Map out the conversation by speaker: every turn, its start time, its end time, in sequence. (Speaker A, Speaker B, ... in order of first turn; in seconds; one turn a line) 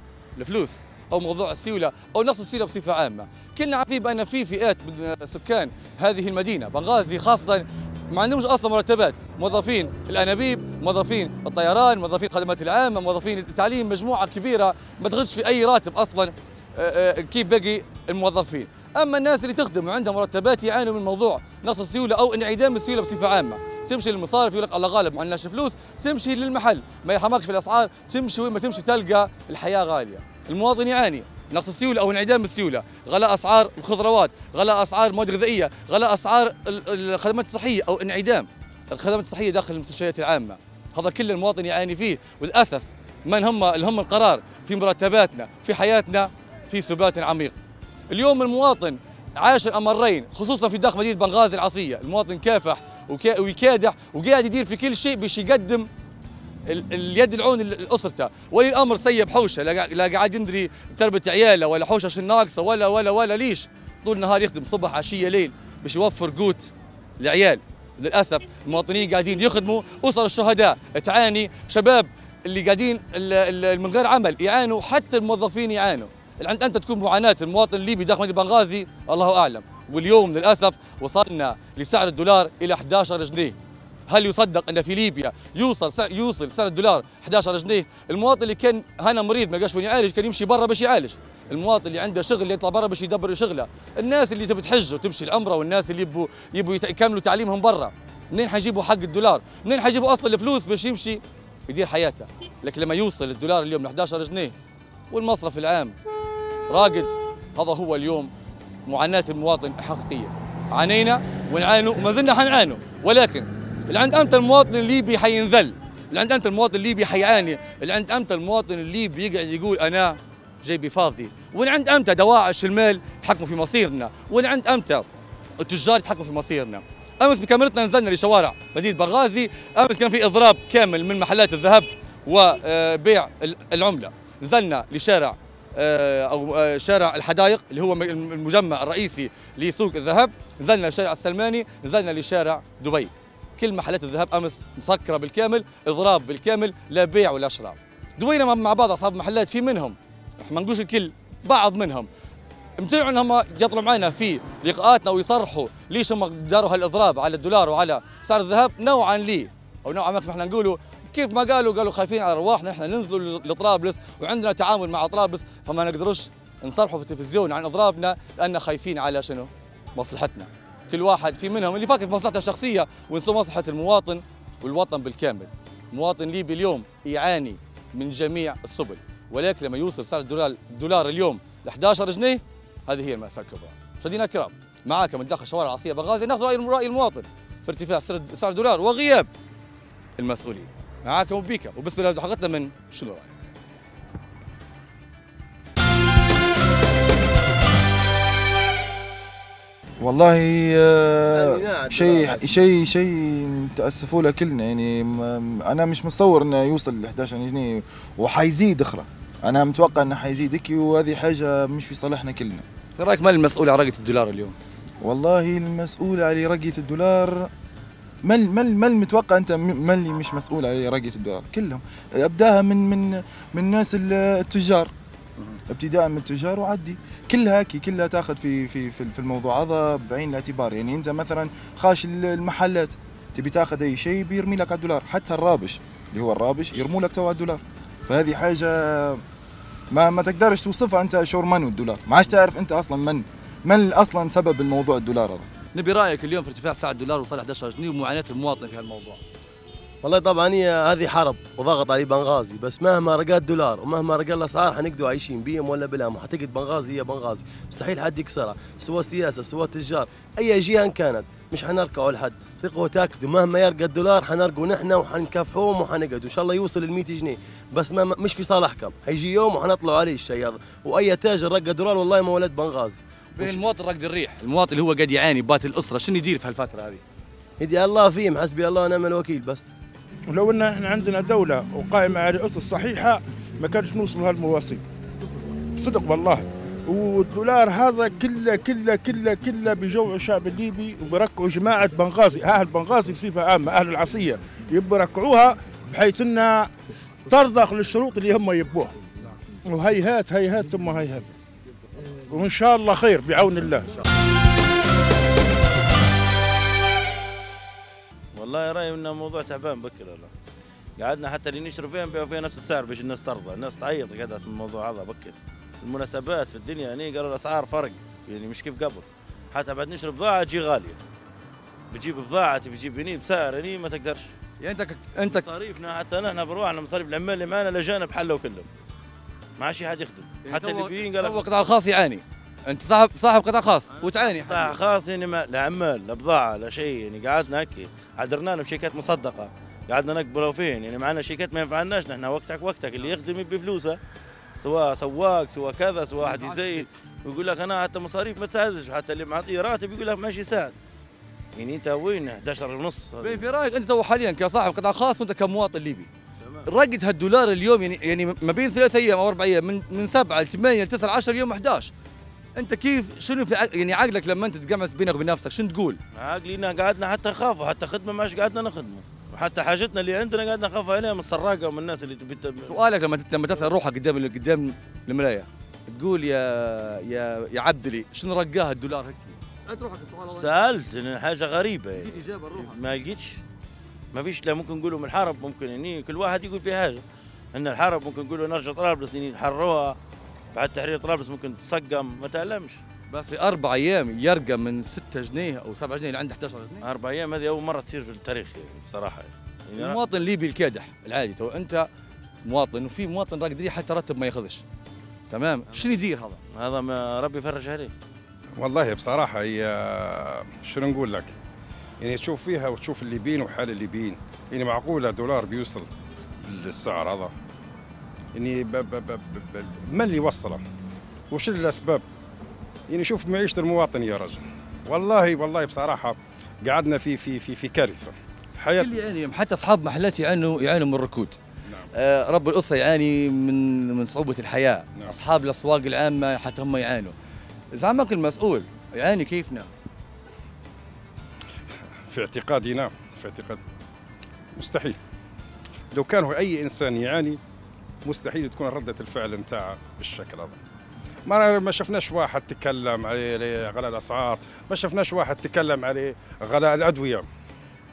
Speaker A: 0.3-47.5
Speaker A: 48.1-55.9
Speaker A: 56.7-83.6
Speaker A: 84.1-104.5
Speaker A: 105.1-106.0
Speaker A: 106.7-108.3
Speaker A: 108.9-125.1
Speaker A: 125.6-152.1
Speaker A: 152.8-189.3
Speaker A: 190.2-193.3
Speaker B: 200.0-212.6
Speaker C: 201.3-202.5
Speaker A: 212.9-214.6
Speaker B: 215.0-217.5
Speaker B: 218.2-224.9
Speaker B: 225.7-239.2
Speaker B: 239.9-245.4
Speaker A: 245.7-249.2
Speaker C: 250.0-273.6
Speaker A: 273.3-277.0
Speaker C: 277.6-279.7
Speaker D: 280.3-284.8
Speaker D: 285.8-296.7
Speaker D: 297.3-298.9
Speaker D: 299.6-301.3
Speaker D: 302.3-303.9
Speaker E: 308.3-310.3
Speaker E: 311.0-321.0
Speaker E: 321.9-324.3
Speaker A: 324.6-325.4
Speaker E: 325.2-328.7
Speaker E: 329.6-331.5
Speaker A: 330.4-334.8
Speaker E: 333.9-344.0
Speaker E: 344.6-350.7
Speaker A: 346.2-346.8
Speaker E: 351.6-353.4
Speaker A: 353.2-356.1
Speaker E: 356.4-356.7
Speaker A: 356.7-361.9
Speaker A: 362.6-366.0
Speaker E: 366.1-372.8
Speaker A: 372.7-380.5
Speaker E: 380.3-383.4
Speaker A: 382.0-382.8
Speaker E: 384.1-387.0
Speaker E: 387.5-390.0
Speaker E: 390.5-392.8
Speaker A: 393.1-396.8
Speaker E: 396.8-400.0
Speaker A: 399.8-401.9
Speaker A: 402.4-404.6
Speaker A: 405.3-406.4
Speaker E: 406.5-407.9
Speaker F: 408.6-411.3
Speaker F: 412.0-415.9
Speaker F: 416.5-417.3
Speaker F: 418.4-420.6
Speaker F: 421.3-422.0
Speaker F: 422.9-428.9
Speaker A: 428.8-431.4
Speaker A: 431.9-437.1
Speaker A: 437.7-439.7
Speaker F: 442.1-443.6
Speaker F: 444.6-445.0
Speaker F: 445.9-447.4
Speaker F: 448.1-450.6
Speaker F: 451.3-457.2